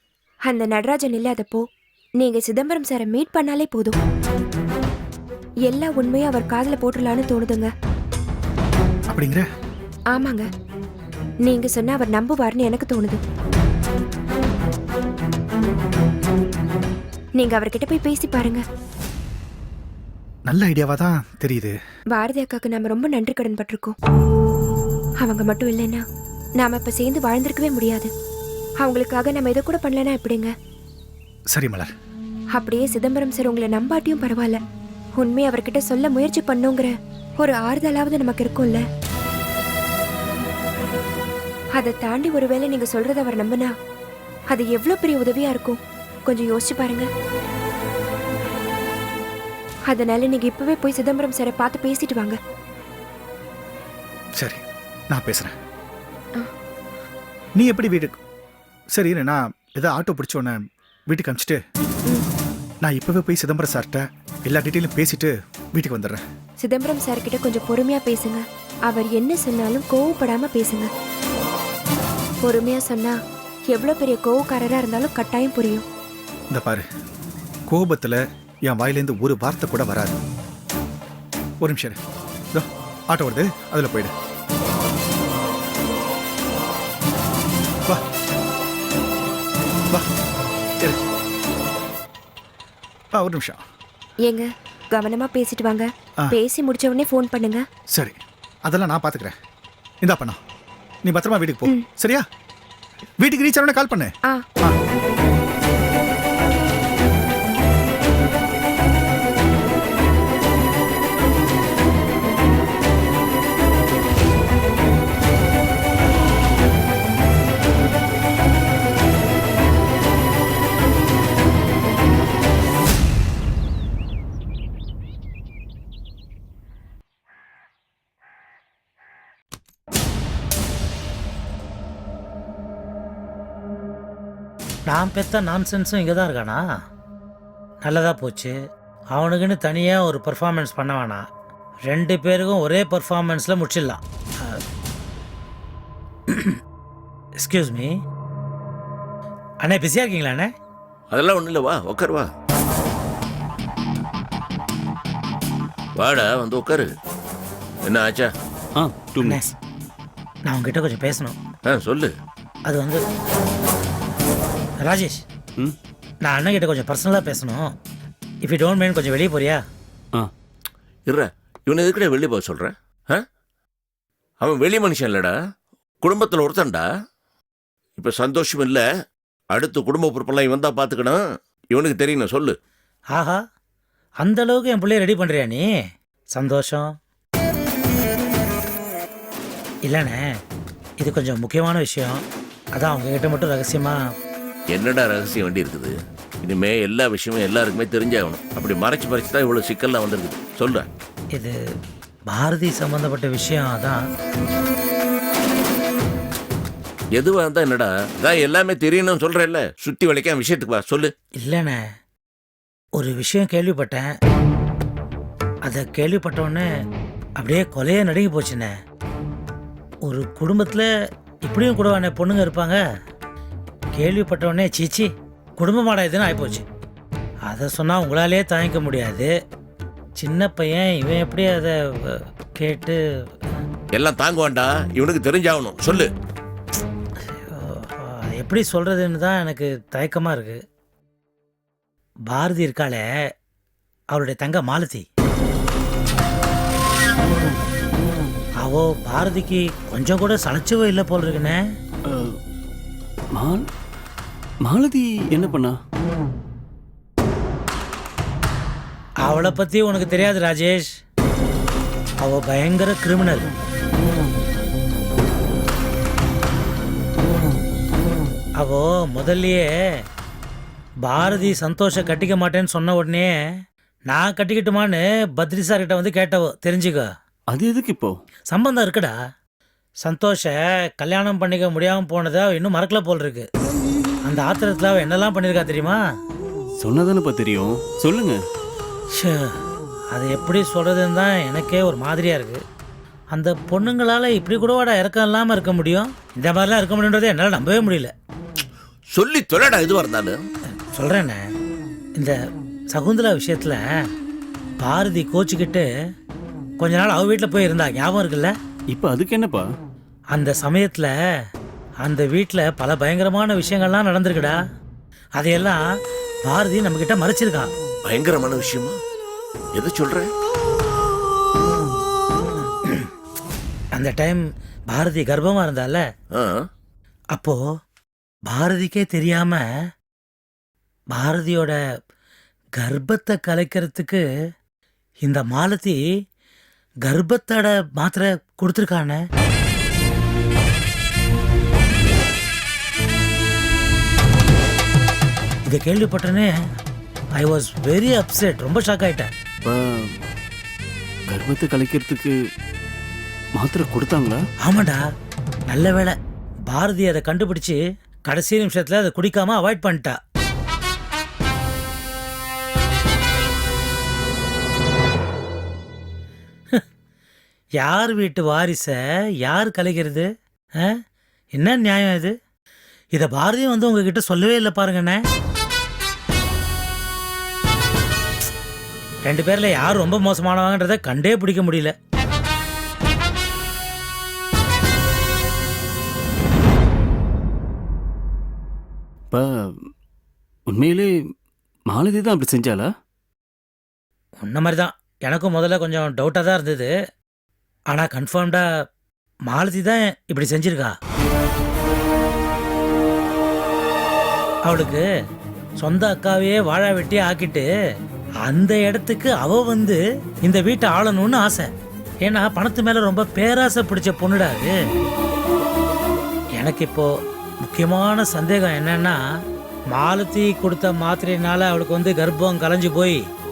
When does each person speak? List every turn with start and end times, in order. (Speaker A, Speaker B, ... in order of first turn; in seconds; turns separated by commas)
Speaker A: 0.4-1.6, Speaker A: 2.2-4.0, Speaker A: 5.7-7.7, Speaker B: 9.1-9.4, Speaker A: 10.1-10.4, Speaker A: 11.4-13.2, Speaker A: 17.4-18.6, Speaker B: 20.5-21.8, Speaker A: 22.1-23.9, Speaker A: 25.2-26.0, Speaker A: 26.6-28.1, Speaker A: 28.8-30.5, Speaker B: 31.5-31.9, Speaker A: 32.5-34.6, Speaker A: 35.1-38.8, Speaker A: 41.8-43.7, Speaker A: 44.5-47.1, Speaker A: 49.9-52.4, Speaker B: 54.4-55.5, Speaker B: 57.6-58.2, Speaker B: 58.9-60.6, Speaker B: 61.1-61.6, Speaker B: 62.8-66.2, Speaker A: 66.6-70.9, Speaker A: 72.4-75.8, Speaker B: 76.5-76.8, Speaker B: 77.7-80.2, Speaker B: 81.6-82.0, Speaker B: 82.5-84.1, Speaker B: 93.2-93.6, Speaker A: 94.2-97.6, Speaker B: 97.9-99.3, Speaker B: 100.0-100.4, Speaker B: 101.0-102.2, Speaker B: 103.2-104.8, Speaker C: 134.9-136.6, Speaker C: 137.8-138.6, Speaker C: 139.1-141.2, Speaker C: 141.9-144.6, Speaker C: 146.3-146.6, Speaker C: 147.4-147.9, Speaker C: 149.6-150.5, Speaker D: 151.1-152.2, Speaker D: 156.0-156.9, Speaker D: 157.8-158.3, Speaker E: 158.8-159.4, Speaker C: 159.2-159.5, Speaker C: 160.5-161.4, Speaker D: 161.7-162.1, Speaker C: 162.7-163.0, Speaker C: 164.8-165.2, Speaker C: 166.2-167.7, Speaker C: 168.4-169.6, Speaker D: 171.1-173.2, Speaker D: 174.4-175.3, Speaker D: 176.0-176.8, Speaker D: 178.0-178.8, Speaker D: 179.5-181.2, Speaker D: 181.7-182.6, Speaker C: 183.2-183.4, Speaker C: 184.2-185.6, Speaker C: 186.3-186.9, Speaker C: 189.9-190.2, Speaker C: 191.0-192.2, Speaker C: 192.8-194.0, Speaker D: 194.7-200.9, Speaker C: 202.3-204.0, Speaker D: 207.2-211.1, Speaker C: 211.4-211.8, Speaker C: 213.0-214.1, Speaker C: 215.7-216.7, Speaker C: 217.4-218.7, Speaker C: 220.1-220.9, Speaker C: 221.5-222.8, Speaker C: 224.0-226.7, Speaker C: 227.5-229.3, Speaker C: 230.2-233.0, Speaker D: 233.9-236.1, Speaker C: 237.5-240.6, Speaker C: 242.3-243.0, Speaker C: 244.1-245.1, Speaker C: 248.6-251.6, Speaker E: 253.3-253.6, Speaker E: 254.7-255.8, Speaker C: 259.2-260.9, Speaker C: 262.2-263.5, Speaker C: 268.6-269.7, Speaker C: 271.0-273.3, Speaker C: 274.1-277.1, Speaker E: 277.5-278.1, Speaker C: 278.5-279.1, Speaker C: 280.0-283.4, Speaker C: 284.2-286.0, Speaker E: 286.8-288.4, Speaker C: 289.1-289.5, Speaker C: 290.1-292.6, Speaker C: 293.3-298.1, Speaker D: 299.1-300.4, Speaker C: 300.9-301.4, Speaker C: 302.9-303.8, Speaker C: 304.8-305.9, Speaker C: 306.8-308.5, Speaker E: 308.9-309.6, Speaker C: 310.3-311.1, Speaker C: 312.0-314.6, Speaker C: 315.4-315.8, Speaker C: 316.4-317.7, Speaker D: 318.1-319.0, Speaker D: 319.8-320.3, Speaker C: 324.0-326.0, Speaker D: 326.3-326.6, Speaker C: 327.4-327.6, Speaker C: 328.5-329.6, Speaker C: 331.1-331.8, Speaker C: 332.8-334.2, Speaker C: 335.2-336.0, Speaker C: 337.1-339.2, Speaker C: 345.7-346.5, Speaker C: 347.4-349.3, Speaker E: 349.7-350.1, Speaker E: 351.3-352.3, Speaker E: 353.6-354.4, Speaker C: 354.6-355.0, Speaker C: 355.7-356.1, Speaker C: 356.7-360.2, Speaker C: 367.8-370.3, Speaker C: 371.6-372.3, Speaker C: 373.1-375.2, Speaker C: 379.3-381.9, Speaker E: 390.7-391.1, Speaker E: 391.9-392.9, Speaker C: 394.4-396.9, Speaker C: 397.9-398.6, Speaker C: 399.5-400.9, Speaker C: 404.7-405.0, Speaker C: 405.8-407.7, Speaker C: 408.4-411.7, Speaker C: 412.2-414.8, Speaker C: 416.6-417.1, Speaker C: 417.6-419.2, Speaker C: 419.9-423.2